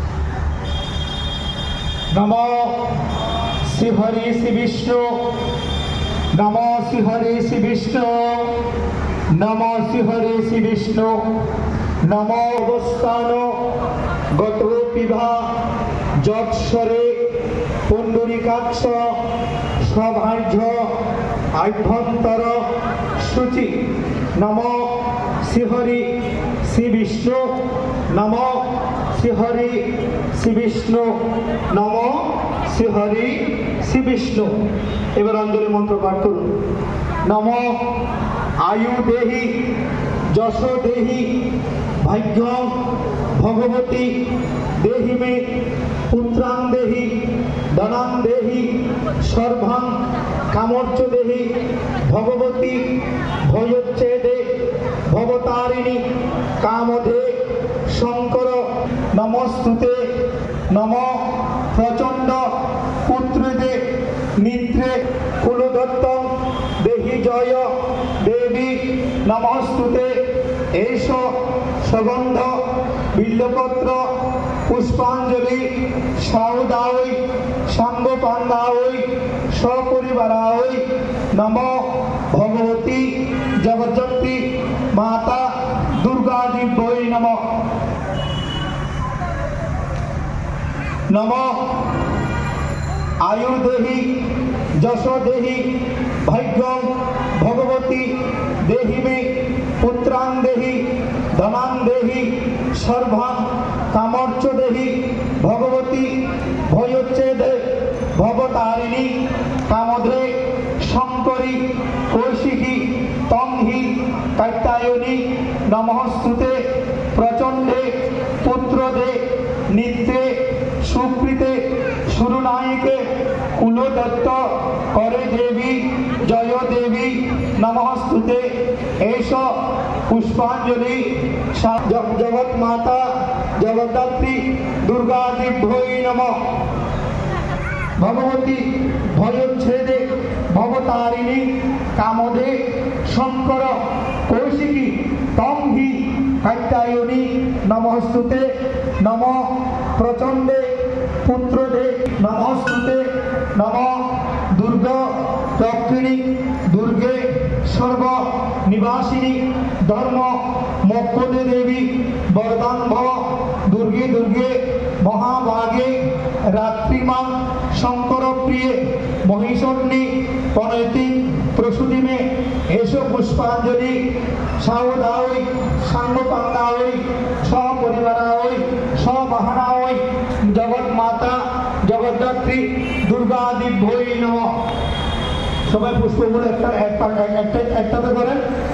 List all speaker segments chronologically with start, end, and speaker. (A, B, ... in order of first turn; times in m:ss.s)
0:02.1-0:02.9 A
0:03.6-0:05.2 A
0:06.3-0:08.5 A
0:09.3-0:11.2 A
0:12.0-0:13.6 A
0:14.3-0:15.5 A
0:16.2-0:17.2 A
0:17.9-0:19.2 A
0:19.8-0:20.9 A
0:21.5-0:22.7 A
0:23.2-0:23.8 A
0:24.4-0:26.1 A
0:26.6-0:27.5 A
0:28.1-0:31.2 A
0:31.7-0:34.6 A
0:35.2-0:36.5 A
0:37.3-0:37.8 A
0:38.6-0:39.5 A
0:40.3-0:41.3 A
0:42.0-0:42.7 A
0:43.4-0:44.2 A
0:44.8-0:45.4 A
0:46.1-0:47.1 A
0:47.7-0:50.0 A
0:50.5-0:51.5 A
0:52.1-0:52.8 A
0:53.4-0:54.5 A
0:55.1-0:56.0 A
0:56.6-1:00.1 A
1:00.7-1:02.5 A
1:03.0-1:03.8 A
1:04.4-1:10.2 A
1:10.7-1:12.6 A
1:13.1-1:14.1 A
1:14.7-1:27.4 A
1:31.1-1:31.7 A
1:33.2-1:34.1 A
1:34.8-1:35.7 A
1:36.2-1:46.2 A
1:46.7-1:49.1 A
1:49.7-1:56.6 A
1:57.1-2:08.5 A
2:09.0-2:09.5 A
2:10.1-2:16.4 A
2:18.0-2:28.5 A
2:29.0-2:54.0 A
2:54.6-3:04.5 A
3:05.7-3:08.4 A